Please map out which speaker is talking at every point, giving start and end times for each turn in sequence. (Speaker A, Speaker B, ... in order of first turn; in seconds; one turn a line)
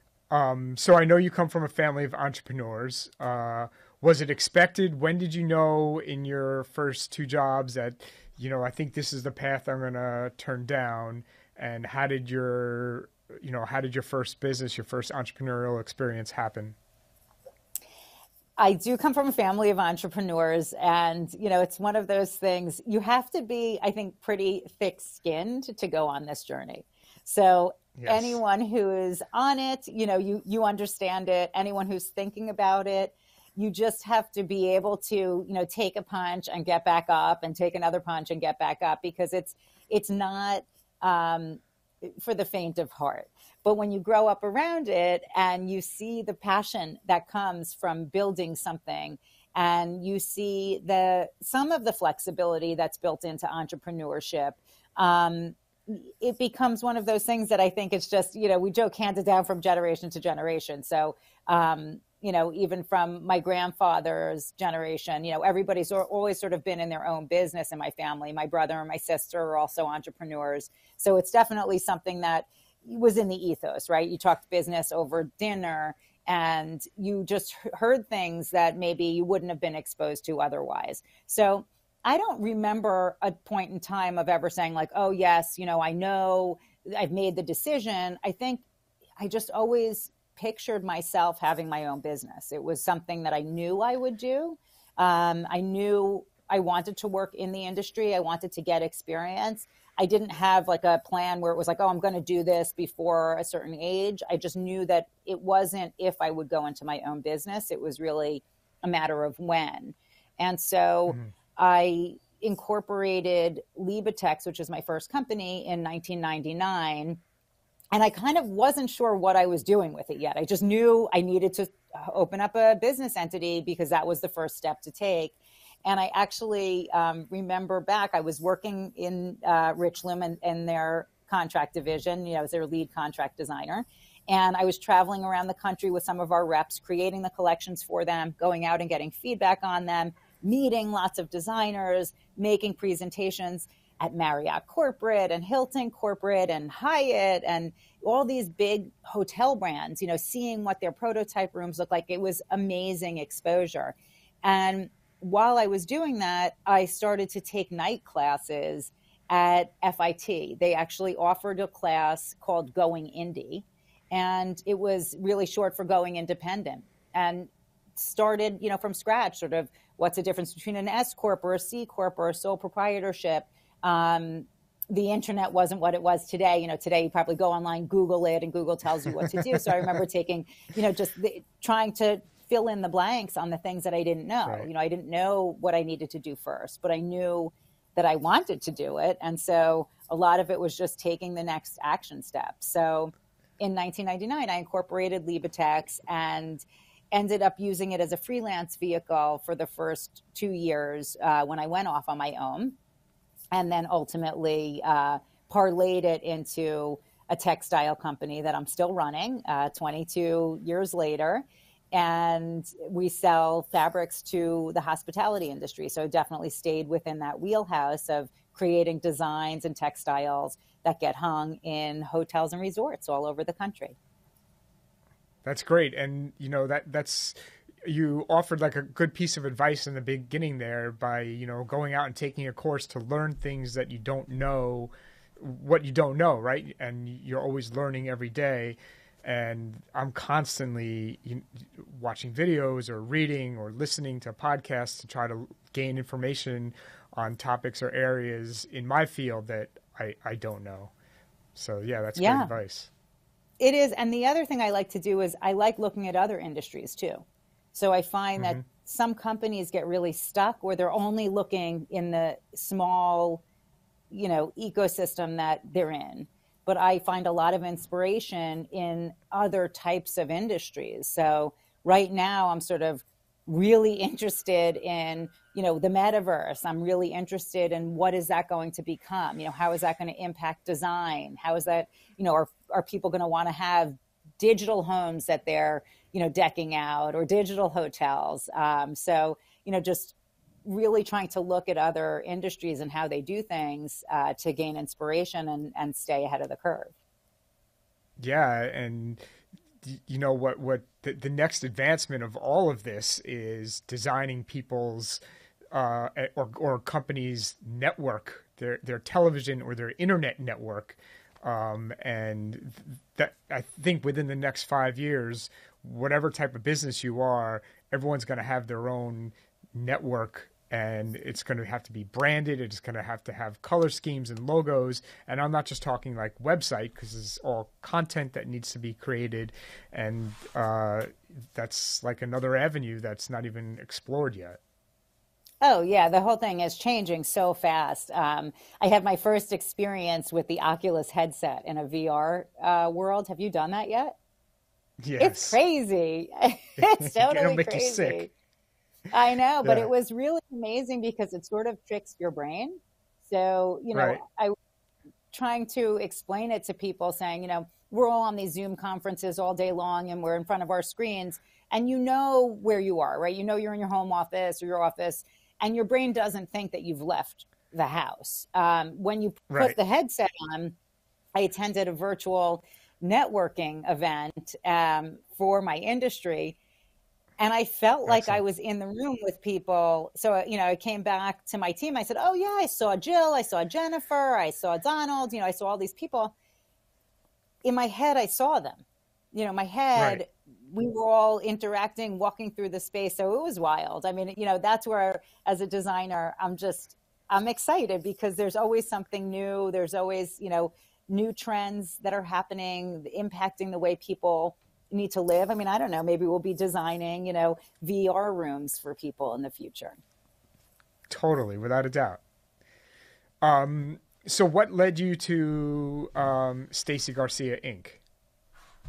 Speaker A: 0.3-16.8
Speaker B: 18.6-88.7
Speaker A: 28.0-28.4
Speaker B: 89.2-117.2
Speaker B: 117.9-202.8
Speaker B: 203.5-224.0
Speaker A: 225.4-250.9
Speaker A: 251.6-252.9
Speaker B: 252.2-252.5
Speaker B: 253.6-263.4
Speaker A: 258.4-258.6
Speaker B: 264.1-296.9
Speaker A: 298.2-299.2
Speaker A: 299.8-305.2
Speaker A: 305.7-334.6
Speaker B: 335.6-344.2
Speaker A: 345.0-345.6
Speaker B: 345.2-348.3
Speaker A: 346.8-348.3
Speaker B: 349.1-354.5
Speaker A: 353.9-354.2
Speaker B: 355.3-370.8
Speaker A: 369.5-369.8
Speaker B: 371.4-376.6
Speaker B: 377.4-386.3
Speaker A: 378.1-378.4
Speaker B: 387.6-410.0
Speaker A: 390.0-390.2
Speaker A: 411.1-412.2
Speaker A: 413.4-418.0